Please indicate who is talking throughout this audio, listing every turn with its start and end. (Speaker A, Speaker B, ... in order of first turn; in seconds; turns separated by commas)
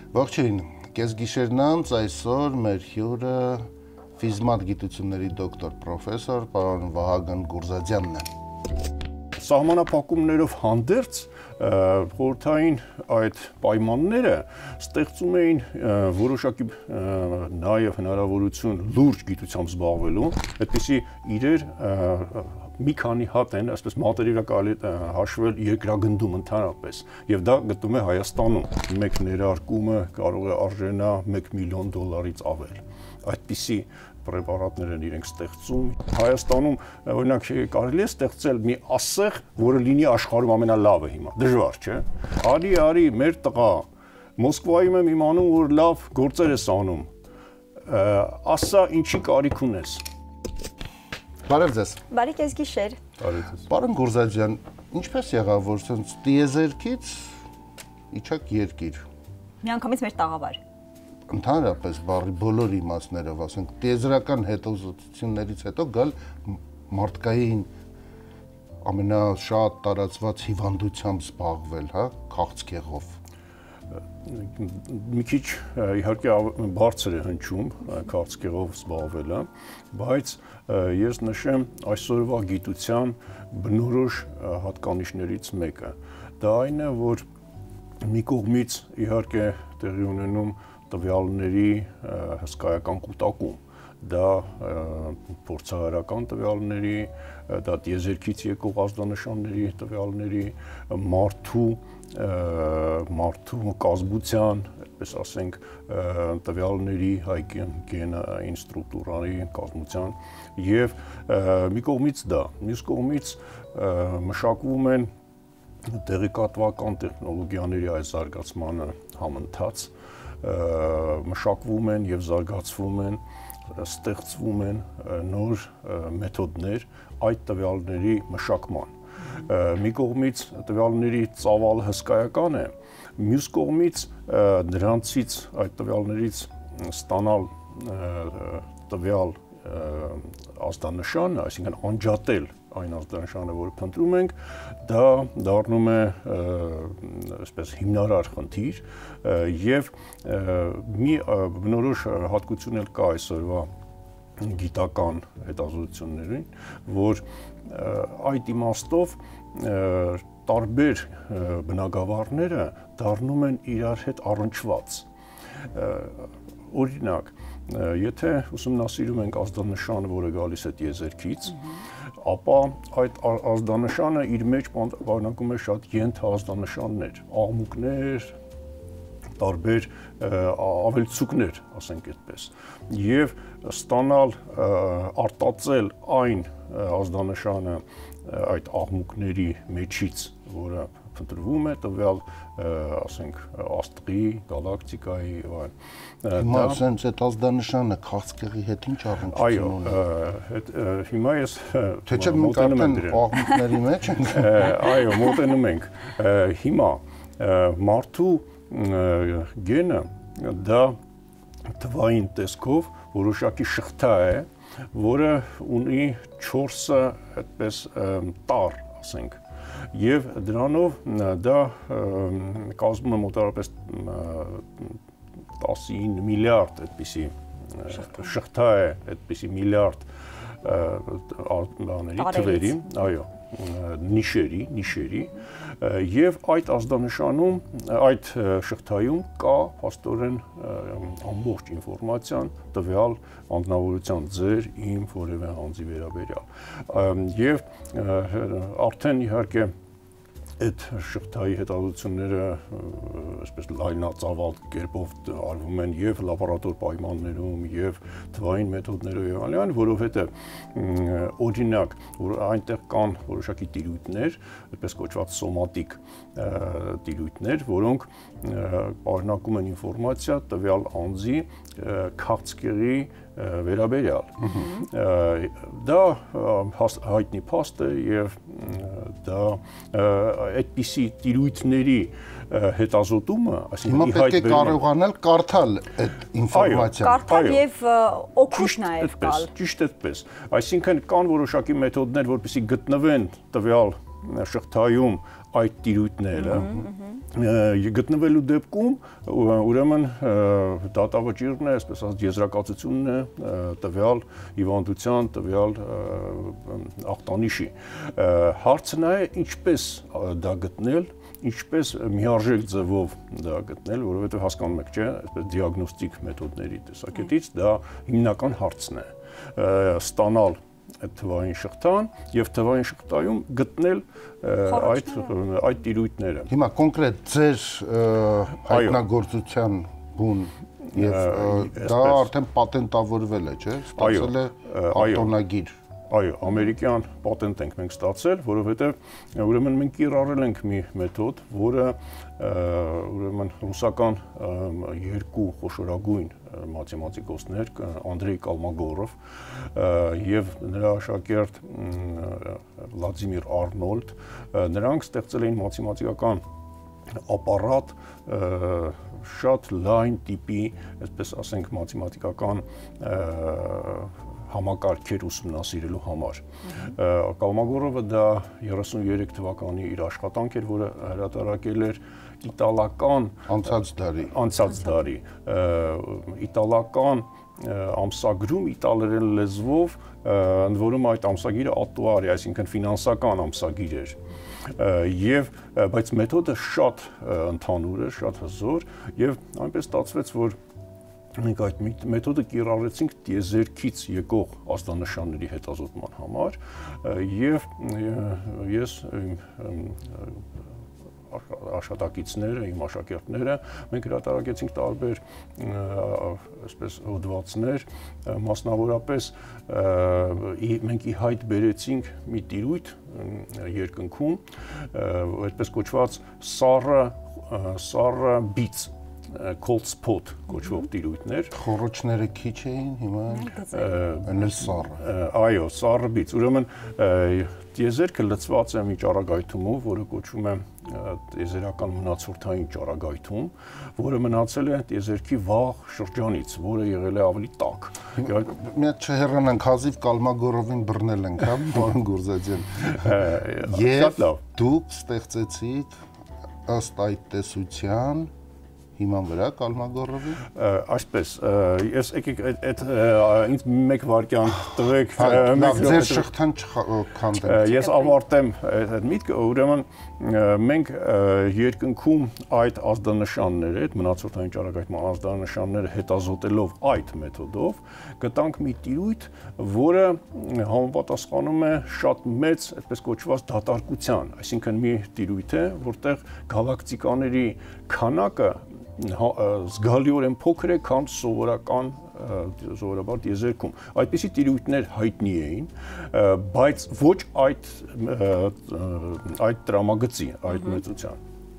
Speaker A: 0.1-8.3, Speaker B: 9.4-43.9, Speaker B: 44.4-47.1, Speaker B: 47.9-50.0, Speaker A: 51.5-52.0, Speaker C: 52.1-53.0, Speaker B: 53.2-53.6, Speaker A: 53.7-57.4, Speaker A: 58.1-59.0, Speaker C: 59.6-60.6, Speaker A: 61.3-67.7, Speaker A: 68.8-73.2, Speaker B: 74.2-87.2, Speaker B: 88.0-115.1, Speaker B: 115.8-153.7, Speaker B: 154.4-165.1, Speaker B: 165.7-171.6, Speaker B: 172.2-178.3, Speaker B: 179.4-195.7, Speaker B: 196.2-196.8, Speaker A: 196.3-200.0, Speaker B: 199.3-203.4, Speaker A: 202.1-204.9, Speaker B: 204.2-211.0, Speaker B: 211.8-219.4, Speaker B: 219.9-225.0, Speaker B: 225.6-230.1, Speaker B: 230.6-249.7, Speaker C: 232.2-233.0, Speaker B: 250.6-284.8, Speaker A: 283.9-287.3, Speaker B: 286.5-287.6, Speaker C: 287.0-289.5, Speaker B: 288.5-326.5, Speaker C: 296.5-297.1, Speaker C: 324.7-325.3, Speaker A: 326.5-335.7, Speaker B: 328.7-329.0, Speaker B: 330.9-332.3, Speaker B: 333.9-335.3, Speaker B: 336.1-356.4, Speaker B: 357.2-373.5, Speaker A: 373.5-374.4, Speaker B: 374.2-384.2, Speaker B: 384.7-390.6, Speaker B: 391.4-400.4, Speaker B: 401.3-421.6, Speaker A: 421.5-423.5, Speaker C: 423.3-423.9, Speaker B: 423.7-438.4, Speaker A: 424.2-425.0, Speaker A: 438.2-446.0, Speaker B: 442.8-444.4, Speaker A: 446.6-448.3, Speaker A: 448.9-450.4, Speaker B: 450.5-456.3, Speaker A: 455.1-457.9, Speaker B: 457.4-491.2